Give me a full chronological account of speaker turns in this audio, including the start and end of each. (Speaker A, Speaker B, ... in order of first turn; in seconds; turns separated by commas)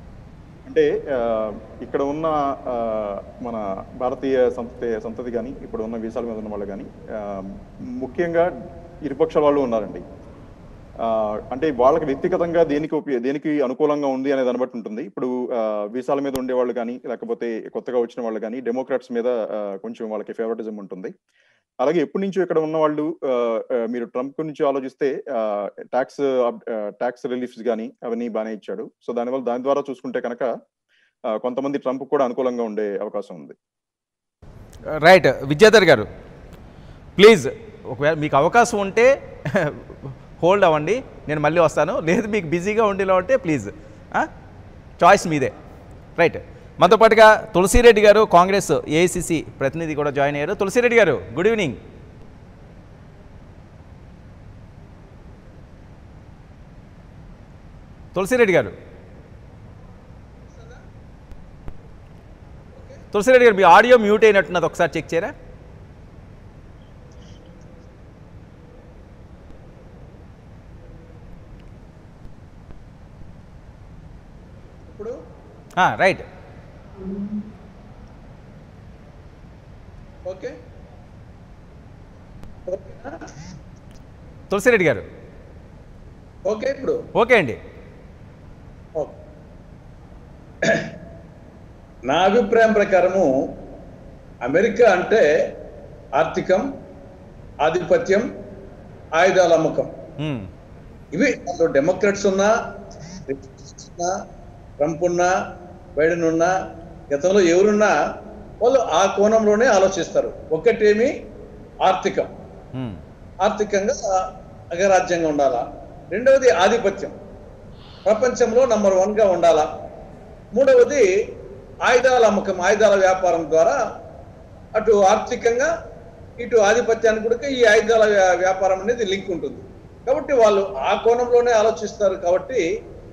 Speaker A: 0.7-8.5, Speaker A: 9.0-10.0, Speaker A: 11.0-21.1, Speaker A: 21.8-30.5, Speaker A: 31.3-33.5, Speaker B: 35.0-36.1, Speaker B: 37.2-39.8, Speaker B: 40.4-44.3, Speaker B: 45.0-45.5, Speaker B: 46.2-51.8, Speaker B: 58.1-58.7, Speaker C: 60.4-60.8, Speaker C: 62.7-63.0, Speaker B: 63.1-65.3, Speaker C: 74.9-75.2, Speaker B: 75.8-76.2, Speaker C: 80.2-80.5, Speaker C: 82.7-83.3, Speaker B: 84.5-85.0, Speaker C: 86.5-87.0, Speaker B: 87.1-87.6, Speaker C: 90.6-90.9, Speaker C: 92.1-93.3, Speaker C: 94.4-95.2, Speaker C: 96.2-96.7, Speaker C: 97.6-98.3, Speaker C: 99.2-99.9, Speaker B: 100.2-100.5, Speaker C: 101.1-102.5, Speaker C: 103.3-104.1, Speaker C: 104.8-105.3, Speaker C: 106.0-106.5, Speaker C: 107.1-107.9, Speaker C: 108.6-111.1, Speaker C: 111.8-112.3, Speaker B: 112.7-113.0, Speaker C: 113.4-114.1, Speaker C: 114.7-117.1, Speaker C: 118.0-119.7, Speaker C: 120.5-121.0, Speaker C: 121.8-123.8, Speaker C: 124.8-125.7, Speaker C: 126.4-132.6